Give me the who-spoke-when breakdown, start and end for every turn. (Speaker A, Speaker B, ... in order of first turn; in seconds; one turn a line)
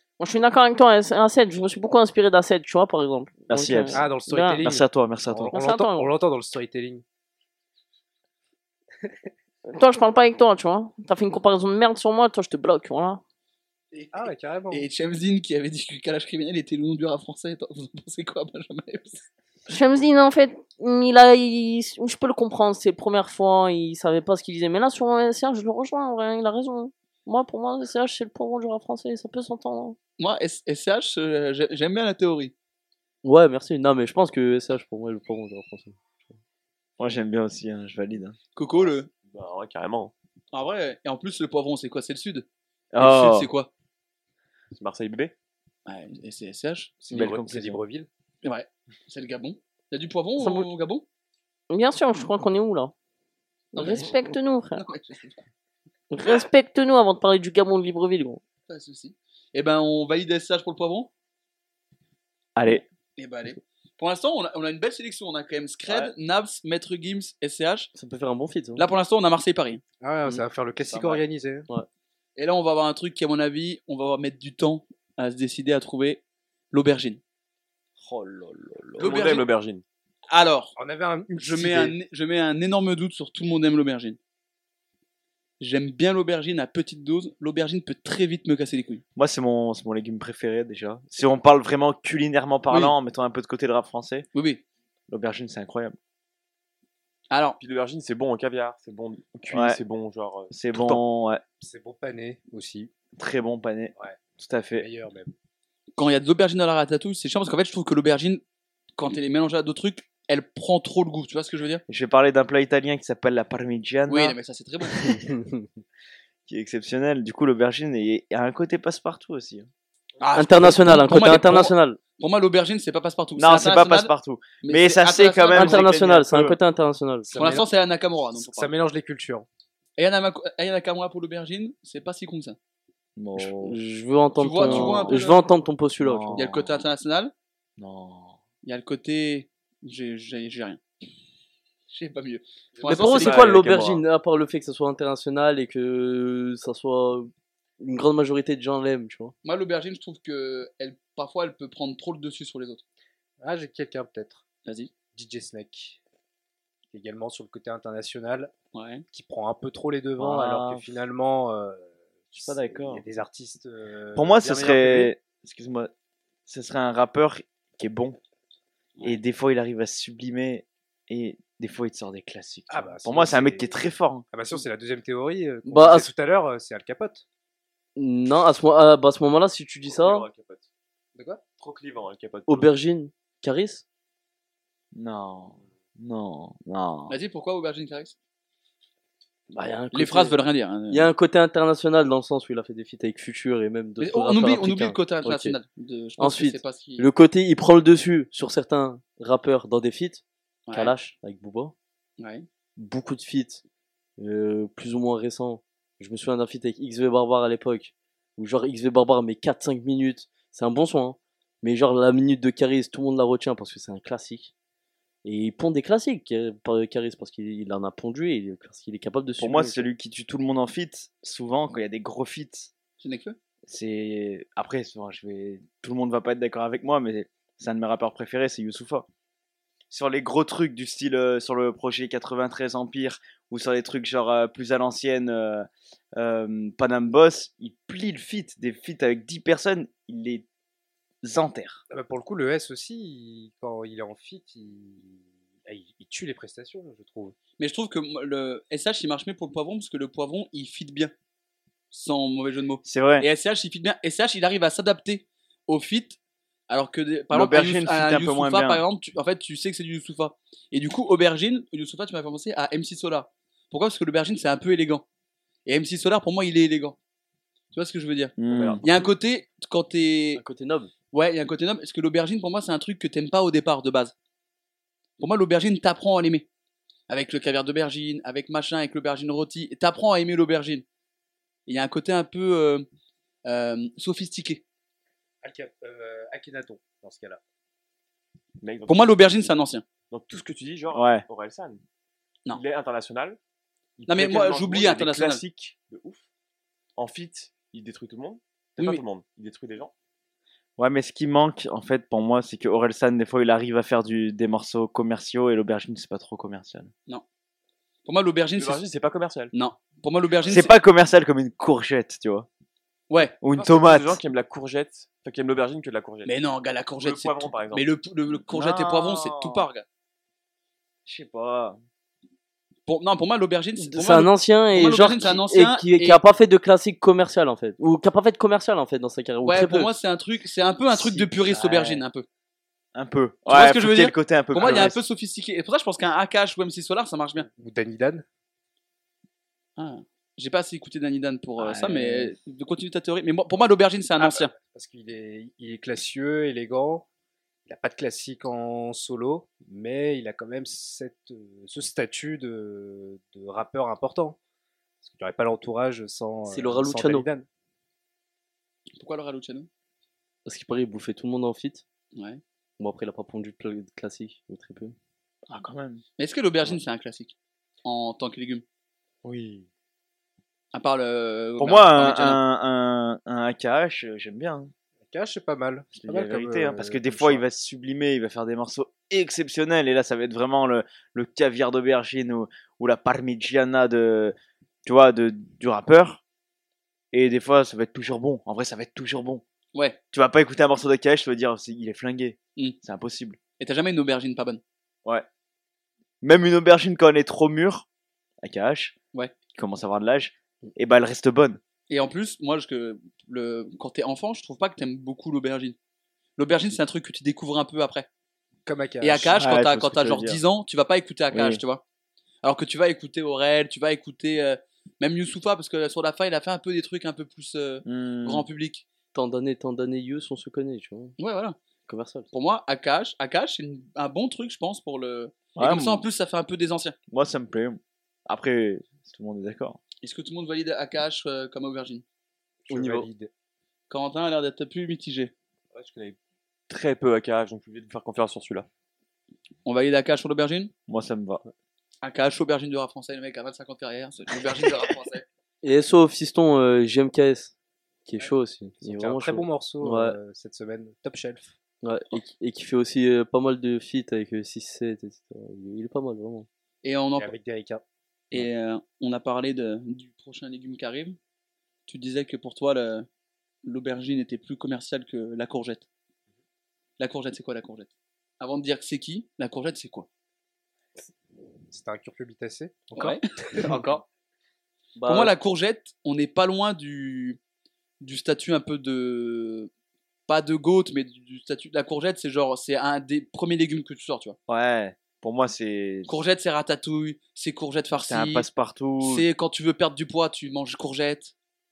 Speaker A: 0.2-4.6
Speaker B: 3.5-4.1
Speaker C: 3.9-7.0
Speaker B: 4.6-5.5
Speaker A: 5.5-6.1
Speaker A: 9.7-13.2
Speaker D: 13.9-19.3
Speaker C: 14.1-14.8
Speaker A: 19.7-30.0
Speaker D: 30.2-32.5
Speaker E: 33.2-36.0
Speaker B: 37.0-38.4
Speaker D: 38.5-39.1
Speaker F: 39.2-40.1
Speaker D: 40.5-42.5
Speaker B: 42.9-43.5
Speaker D: 43.0-43.7
Speaker F: 44.7-45.3
Speaker D: 45.9-46.9
Speaker C: 47.0-48.1
Speaker B: 47.1-47.8
Speaker D: 48.4-51.0
Speaker A: 50.4-50.6
Speaker A: 51.7-52.9
Speaker A: 53.7-54.8
Speaker D: 53.8-55.4
Speaker A: 56.1-58.4
Speaker D: 58.7-61.1
Speaker B: 62.5-62.8
Speaker D: 63.2-67.9
Speaker B: 65.9-66.1
Speaker E: 67.9-68.9
Speaker D: 68.8-69.8
Speaker C: 70.0-71.7
Speaker B: 70.8-71.2
Speaker D: 72.3-76.2
Speaker D: 76.7-77.2
Speaker B: 78.0-79.4
Speaker D: 79.0-79.5
Speaker F: 79.0-79.8
Speaker D: 80.3-80.7
Speaker C: 80.8-81.9
Speaker D: 81.3-84.2
Speaker D: 85.6-89.0
Speaker B: 89.2-94.2
Speaker D: 92.7-92.9
Speaker D: 94.3-94.6
Speaker B: 95.1-96.0
Speaker D: 97.3-97.6
Speaker F: 97.6-100.5
Speaker B: 99.5-99.8
Speaker B: 100.5-101.4
Speaker C: 101.6-102.9
Speaker B: 103.2-104.9
Speaker C: 104.8-105.3
Speaker D: 106.0-108.4
Speaker D: 109.0-111.8
Speaker B: 111.9-114.3
Speaker D: 114.1-115.3
Speaker B: 116.5-119.7
Speaker D: 120.2-125.9
Speaker E: 120.3-122.0
Speaker B: 123.4-126.6
Speaker E: 125.5-127.3
Speaker C: 127.2-127.7
Speaker D: 127.3-128.7
Speaker C: 128.3-129.5
Speaker D: 130.0-132.6
Speaker B: 133.2-133.8
Speaker E: 133.6-136.4
Speaker D: 134.4-135.4
Speaker B: 134.6-135.2
Speaker B: 136.0-136.9
Speaker D: 136.3-137.3
Speaker B: 137.8-138.4
Speaker D: 138.6-140.8
Speaker D: 141.9-143.4
Speaker E: 142.8-149.3
Speaker F: 142.9-144.0
Speaker D: 149.4-152.8
Speaker C: 153.4-154.4
Speaker C: 155.1-156.0
Speaker C: 156.9-158.5
Speaker D: 158.7-159.0
Speaker C: 159.1-165.1
Speaker B: 160.2-160.8
Speaker B: 162.4-163.0
Speaker B: 164.1-165.9
Speaker B: 166.5-168.2
Speaker B: 169.0-174.2
Speaker C: 172.7-173.8
Speaker C: 174.3-177.2
Speaker E: 175.7-176.1
Speaker E: 177.9-180.3
Speaker F: 179.8-180.7
Speaker C: 181.2-181.4
Speaker F: 181.6-182.7
Speaker E: 182.5-183.8
Speaker B: 184.9-187.2
Speaker D: 187.1-188.2
Speaker E: 189.5-190.3
Speaker D: 189.9-191.1
Speaker E: 190.9-195.6
Speaker D: 194.0-197.1
Speaker E: 196.2-200.2
Speaker D: 200.7-200.9
Speaker E: 200.7-201.7
Speaker D: 202.2-202.4
Speaker E: 202.8-203.6
Speaker E: 204.2-214.5
Speaker E: 215.2-219.9
Speaker B: 219.4-222.7
Speaker D: 223.0-223.4
Speaker B: 223.7-229.1
Speaker B: 229.9-240.4
Speaker B: 241.2-241.8
Speaker C: 241.9-247.3
Speaker D: 247.6-251.1
Speaker D: 251.9-256.2
Speaker B: 252.8-253.3
Speaker D: 256.7-265.0
Speaker B: 257.3-258.8
Speaker D: 265.6-267.0
Speaker D: 267.7-270.4
Speaker B: 268.4-268.8
Speaker F: 268.5-269.0
Speaker E: 270.4-270.9
Speaker D: 271.1-274.1
Speaker D: 275.2-276.4
Speaker D: 277.1-280.8
Speaker D: 281.7-282.9
Speaker D: 283.4-284.6
Speaker C: 285.4-287.4
Speaker F: 288.6-289.1
Speaker D: 288.9-289.9
Speaker F: 290.1-291.8
Speaker B: 290.9-291.2
Speaker F: 292.5-293.4
Speaker F: 294.0-296.2
Speaker D: 294.1-295.4
Speaker F: 296.9-299.9
Speaker D: 298.8-299.0
Speaker B: 300.8-306.9
Speaker D: 308.1-308.8
Speaker F: 308.6-309.5
Speaker D: 309.5-310.7
Speaker B: 310.4-312.5
Speaker D: 313.1-313.4
Speaker B: 313.4-314.2
Speaker F: 313.5-316.3
Speaker D: 316.2-319.8
Speaker F: 317.0-317.9
Speaker B: 318.5-319.7
Speaker B: 321.1-321.8
Speaker D: 322.9-326.2
Speaker E: 323.8-329.9
Speaker D: 329.4-332.2
Speaker B: 331.1-332.0
Speaker B: 332.9-335.0
Speaker D: 333.5-337.5
Speaker C: 334.6-334.9
Speaker C: 337.5-338.2
Speaker D: 339.8-344.5
Speaker B: 341.6-342.3
Speaker C: 344.2-347.1
Speaker C: 347.6-354.4
Speaker C: 355.0-357.4
Speaker E: 356.5-357.3
Speaker D: 358.9-359.7
Speaker E: 360.4-361.8
Speaker D: 362.1-362.4
Speaker E: 362.8-364.9
Speaker B: 365.5-366.0
Speaker D: 366.2-368.6
Speaker B: 369.2-369.7
Speaker D: 370.7-372.4
Speaker B: 371.6-374.7
Speaker C: 375.1-377.4
Speaker B: 375.9-386.2
Speaker B: 387.1-389.4
Speaker B: 390.1-393.4
Speaker D: 393.6-394.6
Speaker B: 396.2-397.9
Speaker B: 398.4-398.9
Speaker B: 399.5-401.6
Speaker D: 401.9-405.8
Speaker D: 406.4-408.1
Speaker C: 408.6-409.4
Speaker D: 409.0-411.8
Speaker B: 409.4-410.4
Speaker B: 411.3-411.6
Speaker D: 412.4-418.8
Speaker B: 417.8-418.5
Speaker E: 419.1-421.1
Speaker D: 421.2-421.6
Speaker E: 421.9-422.3
Speaker D: 422.3-426.9
Speaker B: 425.5-426.1
Speaker B: 427.1-429.8
Speaker D: 430.0-432.0
Speaker E: 432.7-433.1
Speaker C: 432.7-433.3
Speaker D: 433.9-435.3
Speaker F: 435.7-436.2
Speaker F: 436.7-438.7
Speaker D: 439.6-440.7
Speaker B: 440.9-441.4
Speaker D: 442.0-445.2
Speaker E: 445.6-447.5
Speaker E: 448.1-450.1
Speaker C: 448.8-451.6
Speaker E: 451.8-456.5
Speaker D: 456.8-457.3
Speaker C: 457.2-457.8
Speaker D: 458.3-461.2
Speaker D: 461.9-463.1
Speaker D: 463.6-465.9
Speaker D: 467.0-470.1
Speaker C: 471.7-473.9
Speaker D: 472.9-474.0
Speaker E: 475.0-475.3
Speaker D: 475.1-477.4
Speaker D: 478.0-479.7
Speaker D: 480.3-484.4
Speaker B: 484.5-486.2
Speaker D: 486.1-488.4
Speaker B: 488.0-489.2
Speaker D: 489.0-491.3